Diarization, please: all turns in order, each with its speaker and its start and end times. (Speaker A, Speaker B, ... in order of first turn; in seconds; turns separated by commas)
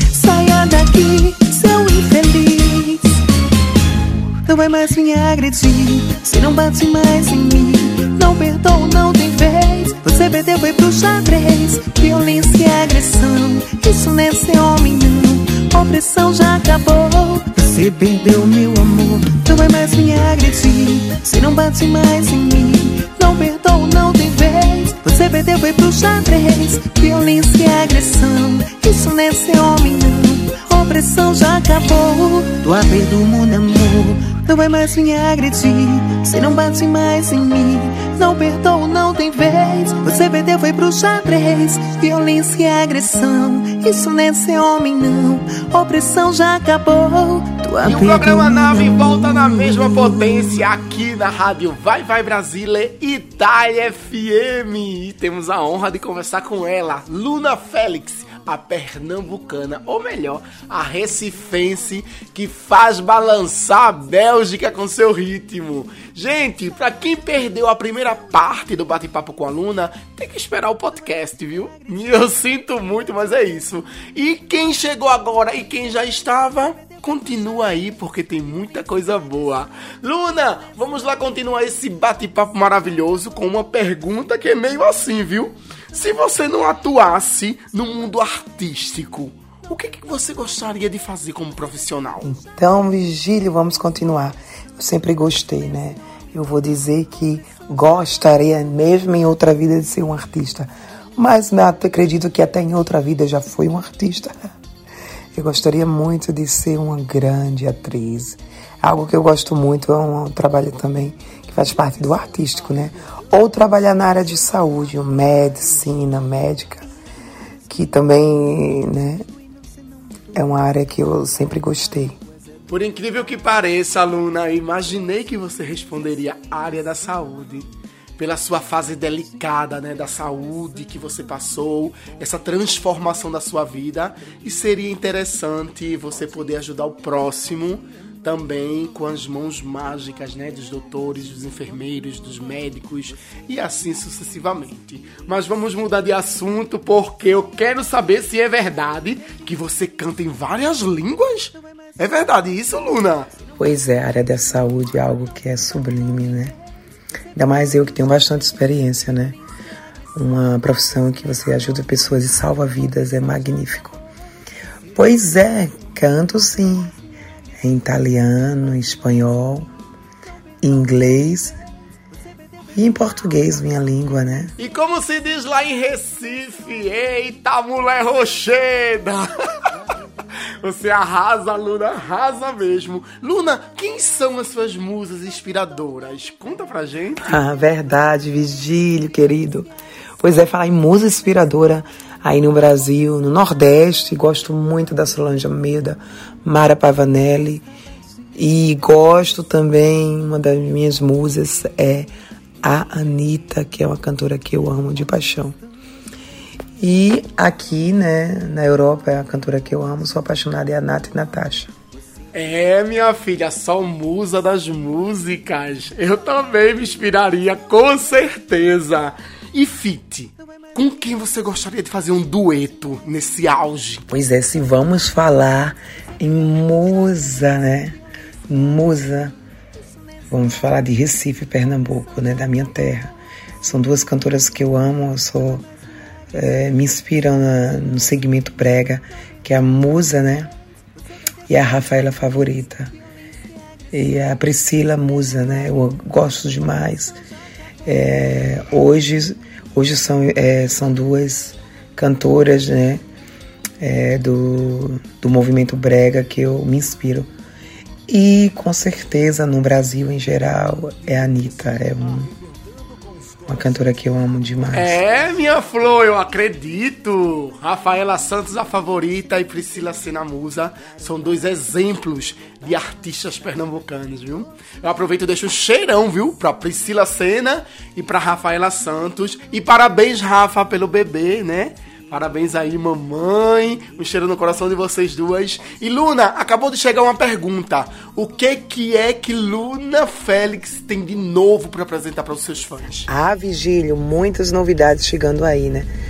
Speaker A: 0.1-3.1, Speaker A: 4.5-48.8, Speaker B: 47.8-92.3, Speaker C: 92.2-104.5, Speaker C: 105.3-116.9, Speaker C: 117.7-119.2, Speaker C: 120.3-122.2, Speaker B: 122.7-127.7, Speaker B: 128.2-153.3, Speaker C: 153.6-156.5, Speaker C: 157.3-159.4, Speaker C: 160.2-164.0, Speaker C: 164.9-166.9, Speaker C: 167.6-169.7, Speaker C: 170.6-171.6, Speaker C: 172.8-174.5, Speaker B: 174.6-179.4, Speaker B: 180.6-187.4, Speaker C: 187.3-189.7, Speaker C: 190.2-197.7, Speaker C: 198.3-202.1, Speaker C: 202.6-205.6, Speaker C: 206.8-211.7, Speaker B: 212.3-224.1, Speaker C: 224.1-228.0, Speaker C: 228.5-229.3, Speaker C: 230.3-235.6, Speaker C: 236.3-240.5, Speaker C: 241.5-242.9, Speaker C: 243.9-247.2, Speaker C: 247.9-253.0, Speaker C: 253.8-257.3, Speaker C: 258.1-262.3, Speaker C: 263.5-265.0, Speaker B: 264.7-293.1, Speaker C: 293.1-295.9